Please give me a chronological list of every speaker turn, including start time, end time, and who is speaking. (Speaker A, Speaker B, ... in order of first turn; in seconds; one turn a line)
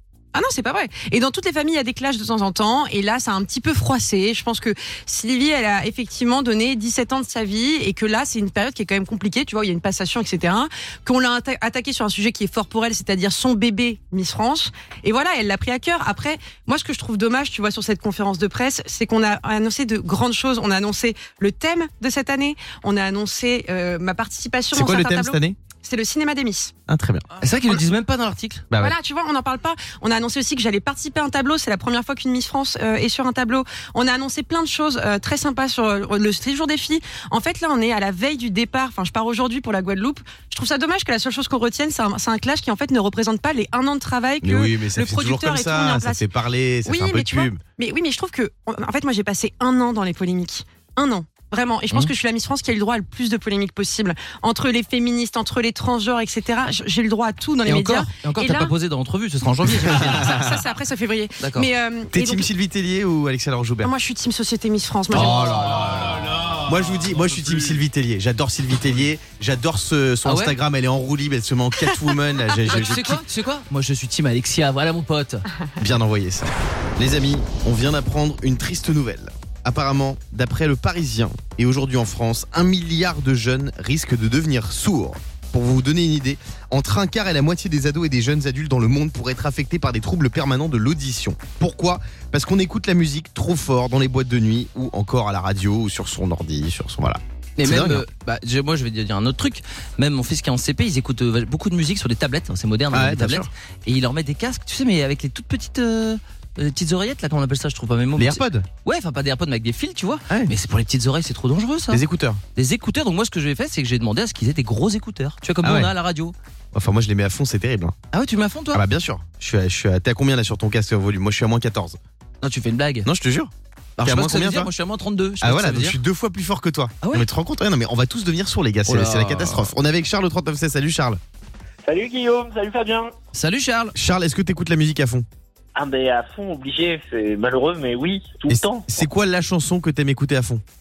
Speaker A: 0.3-26.7
Speaker B: 24.7-25.6
Speaker B: 26.9-27.3
Speaker C: 27.4-28.7
Speaker B: 28.7-29.0
Speaker A: 28.8-46.3
Speaker B: 44.4-47.6
Speaker A: 46.9-58.7
Speaker C: 57.6-60.5
Speaker A: 60.1-62.5
Speaker C: 61.4-61.7
Speaker B: 62.1-63.9
Speaker A: 63.8-65.7
Speaker B: 65.1-73.2
Speaker C: 65.1-66.0
Speaker C: 70.2-70.6
Speaker C: 72.7-75.5
Speaker B: 75.8-98.0
Speaker C: 97.6-112.0
Speaker B: 102.9-103.5
Speaker B: 108.2-108.7
Speaker B: 111.9-112.4
Speaker C: 112.5-116.3
Speaker B: 115.6-115.9
Speaker B: 116.7-118.0
Speaker C: 118.1-118.8
Speaker B: 118.7-122.0
Speaker C: 122.4-123.1
Speaker B: 123.0-124.7
Speaker C: 124.0-126.0
Speaker B: 125.4-131.2
Speaker C: 127.0-127.3
Speaker C: 128.9-129.7
Speaker D: 131.8-133.1
Speaker C: 133.3-133.9
Speaker B: 133.9-135.3
Speaker D: 135.8-138.9
Speaker B: 138.5-140.6